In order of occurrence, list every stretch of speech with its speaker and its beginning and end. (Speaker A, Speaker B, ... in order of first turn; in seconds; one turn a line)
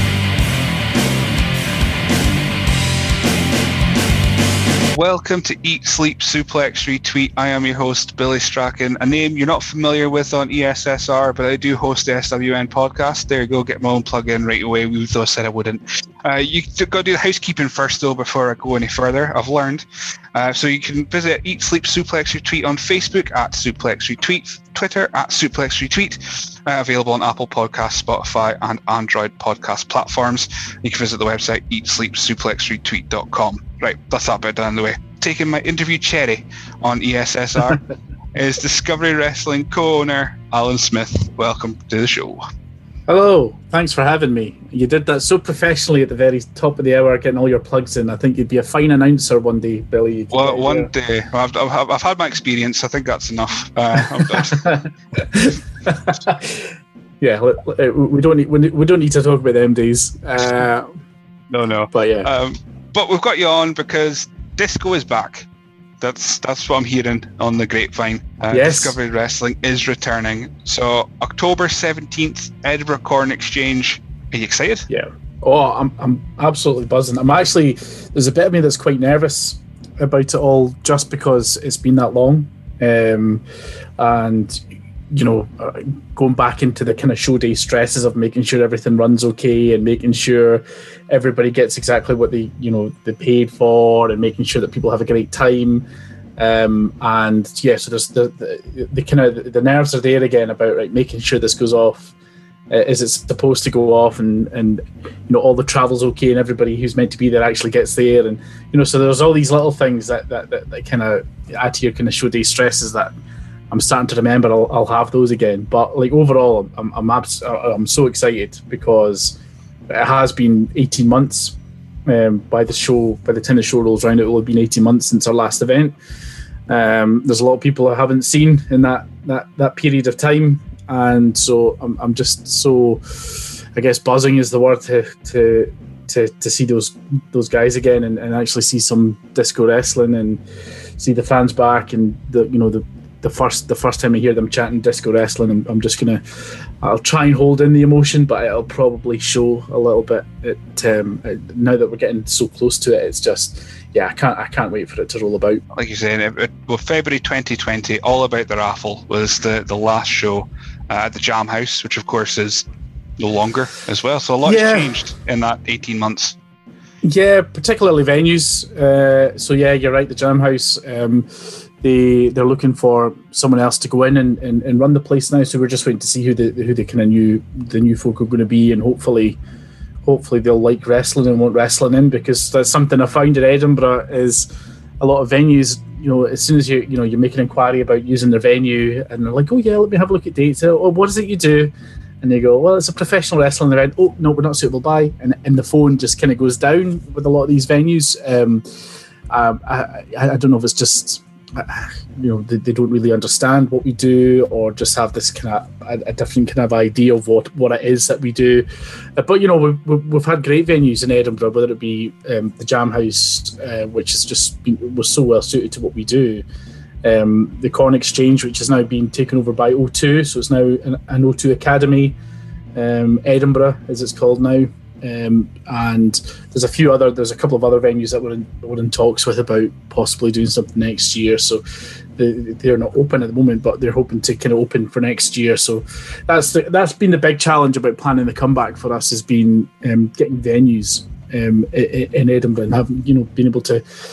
Speaker A: 4.9-37.8
Speaker A: 38.3-42.4
Speaker B: 43.1-50.9
Speaker A: 50.3-54.7
Speaker B: 54.3-56.7
Speaker B: 57.2-60.9
Speaker A: 61.5-65.5
Speaker B: 61.9-62.3
Speaker A: 66.0-74.8
Speaker B: 68.5-69.0
Speaker B: 74.9-83.4
Speaker B: 84.0-95.8
Speaker B: 96.4-102.1
Speaker B: 102.7-113.1
Speaker B: 113.7-119.3
Speaker B: 119.9-126.0
Speaker B: 126.7-140.4
Speaker B: 141.0-146.2
Speaker B: 146.8-155.6
Speaker A: 155.7-162.6
Speaker A: 163.2-166.4
Speaker B: 164.4-164.9
Speaker B: 167.0-179.4
Speaker B: 180.0-184.5
Speaker B: 185.0-198.6
Speaker B: 199.3-216.4
Speaker B: 217.0-222.2
Speaker B: 222.7-231.6
Speaker B: 232.2-243.8